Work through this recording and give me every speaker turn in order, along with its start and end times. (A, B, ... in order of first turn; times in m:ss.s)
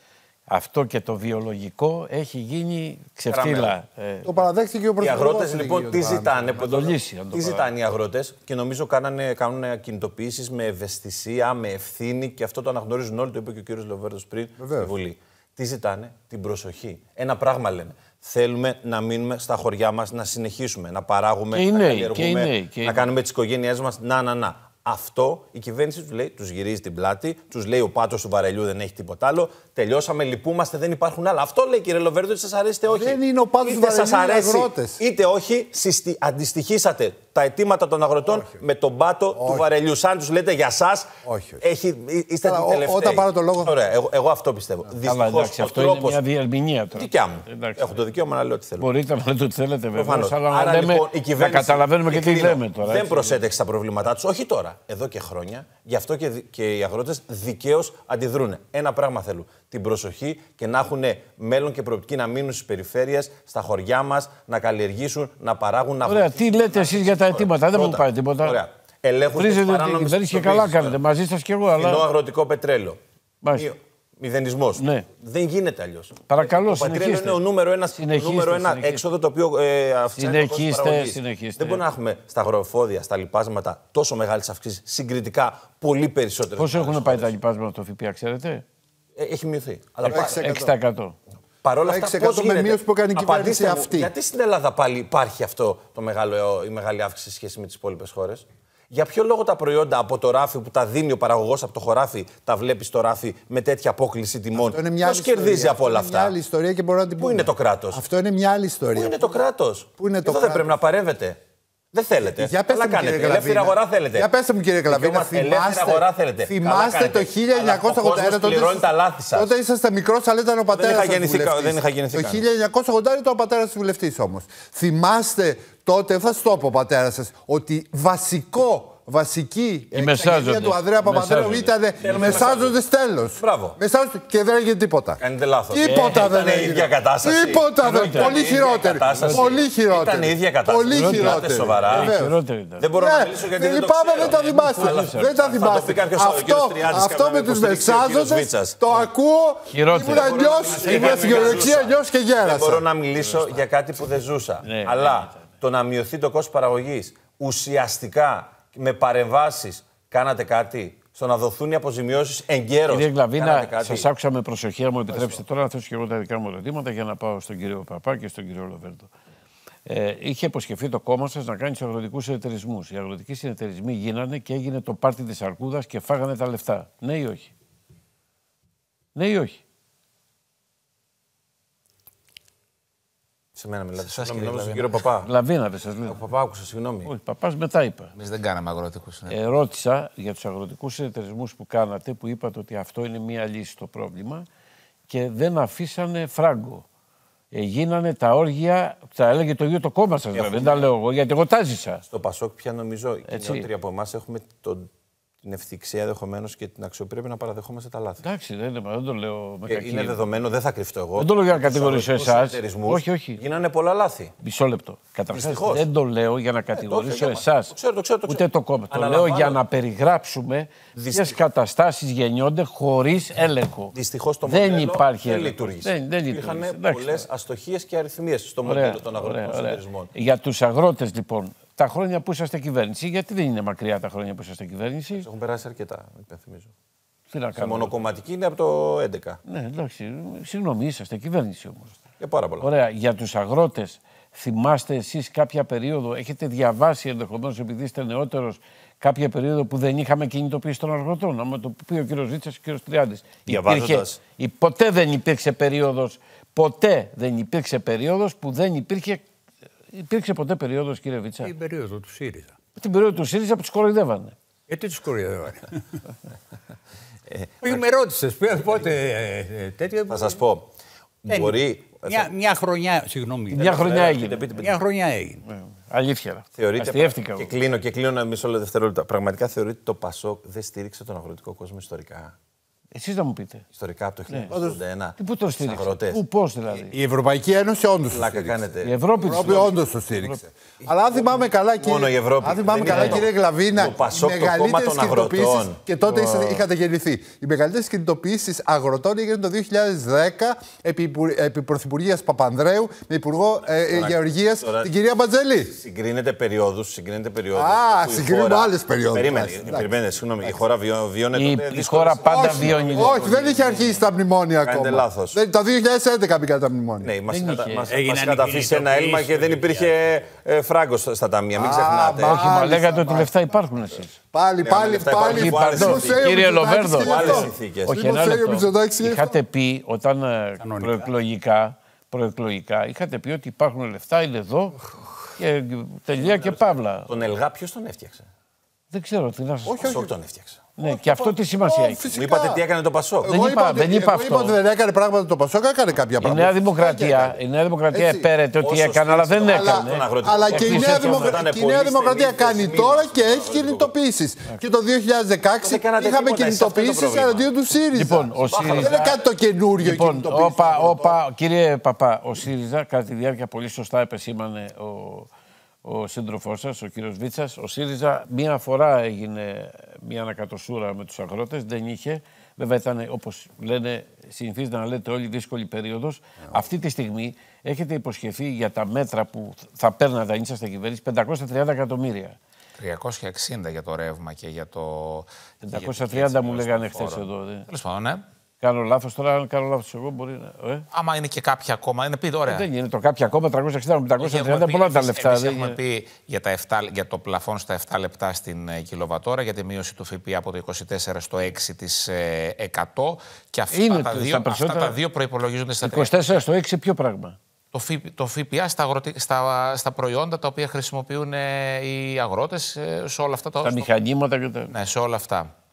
0:00.5-0:04.3 A
0:03.3-0:03.8 B
0:04.2-0:06.6 C
0:05.0-0:46.2 B
0:06.6-0:07.7 A
0:14.6-0:14.9 C
0:21.5-0:23.0 A
0:32.9-0:35.0 C
0:39.4-0:39.7 C
0:41.2-0:41.6 C
0:42.4-0:43.8 C
0:45.0-0:48.1 A
0:46.9-0:48.9 B
0:48.8-0:53.4 A
0:50.0-1:11.0 B
1:06.0-1:08.6 A
1:09.4-1:12.1 A
1:11.7-1:13.0 B
1:13.4-1:13.7 A
1:13.5-1:27.3 B
1:14.8-1:15.1 A
1:16.3-1:17.4 A
1:18.0-1:19.0 A
1:20.2-1:21.8 A
1:26.6-1:28.6 A
1:29.2-1:30.5 B
1:30.1-1:30.7 C
1:30.1-1:31.2 A
1:31.6-1:46.4 B
1:31.8-1:34.1 C
1:44.5-1:49.4 C
1:47.2-1:48.0 B
1:48.9-1:51.4 B
1:50.0-1:50.8 C
1:51.9-1:54.3 B
1:52.2-2:22.4 C
1:54.9-1:59.5 B
2:00.7-2:02.4 B
2:09.9-2:11.7 A
2:12.0-2:12.8 B
2:13.4-2:13.8 B
2:15.2-2:22.2 B
2:15.8-2:16.4 A
2:17.8-2:18.5 A
2:19.1-2:19.5 A
2:20.9-2:22.9 A
2:22.8-2:29.0 B
2:22.9-2:32.9 C
2:24.2-2:25.7 A
2:29.7-2:31.7 A
2:30.0-2:44.1 B
2:33.3-2:33.6 A
2:34.6-2:35.4 A
2:42.9-2:49.1 A
2:45.1-2:45.4 B
2:49.9-2:57.5 A
2:59.2-2:59.6 A
3:03.6-3:05.3 B
3:04.0-3:05.0 D
3:05.2-3:06.2 A
3:06.1-3:07.1 B
3:07.1-3:08.1 A
3:08.2-3:09.4 D
3:09.3-3:14.5 A
3:15.1-3:16.8 A
3:17.5-3:22.0 A
3:20.3-3:20.9 B
3:22.1-3:24.9 B
3:23.3-3:23.7 A
3:25.4-3:28.2 B
3:28.2-3:30.2 A
3:29.7-3:34.3 B
3:31.2-3:33.4 A
3:34.4-3:47.3 A
3:35.3-3:35.8 B
3:36.8-3:39.6 B
3:41.0-3:41.4 B
3:43.9-3:50.1 B
3:48.6-3:55.3 A
3:55.2-3:56.7 B
3:57.3-3:58.0 A
3:57.6-3:59.4 B
3:59.5-4:02.0 A
4:02.2-4:02.7 B
4:02.6-4:19.2 A
4:13.5-4:14.2 B
4:19.9-4:21.5 A
4:21.4-4:22.6 E
4:22.8-4:24.4 A
4:24.7-4:25.8 E
4:27.3-4:27.8 B
4:27.6-4:30.4 E
4:30.1-4:30.7 B
4:31.2-4:32.3 B
4:31.3-4:34.0 E
4:33.5-4:34.4 A
4:33.6-4:34.8 B
4:34.5-4:35.4 E
4:35.5-4:37.5 A
4:36.6-4:42.3 B
4:42.9-4:43.7 A
4:43.7-4:46.2 B
4:44.5-4:44.8 C
4:45.2-4:47.0 A
4:46.9-5:05.8 C
4:48.1-4:49.7 B
4:48.8-4:50.4 A
4:50.8-4:55.8 B
4:52.9-4:53.2 A
4:56.0-4:56.6 A
5:03.9-5:04.9 B
5:05.7-5:13.5 B
5:07.5-5:09.9 C
5:11.3-5:14.0 A
5:12.2-5:17.1 C
5:14.6-5:15.4 B
5:17.0-5:22.6 B
5:17.3-5:17.9 A
5:17.9-5:19.9 E
5:21.5-5:23.6 C
5:22.2-5:24.1 A
5:24.3-5:29.4 C
5:24.6-5:28.0 B
5:25.1-5:37.1 A
5:30.6-5:31.1 E
5:36.2-5:38.3 B
5:38.9-5:40.0 A
5:39.7-5:40.2 C
5:39.8-5:40.8 B
5:40.8-5:42.7 C
5:40.8-5:42.0 A
5:42.1-5:43.4 B
5:43.2-5:47.4 C
5:43.2-5:44.6 A
5:46.2-5:51.4 A
5:47.9-5:48.3 C
5:48.6-5:53.9 B
5:49.4-6:01.2 C
5:55.6-5:57.5 B
5:57.9-5:59.2 A
5:58.5-5:59.2 B
5:59.8-6:05.3 A
6:05.8-6:22.4 A
6:22.8-6:28.2 D
6:25.6-6:27.7 A
6:28.6-6:30.9 A
6:30.9-6:32.7 D
6:32.5-6:35.8 A
6:34.2-6:46.4 D
6:43.7-6:45.0 A
6:45.8-6:47.4 A
6:47.7-6:53.9 D
6:53.6-6:54.7 A
6:54.7-6:55.5 D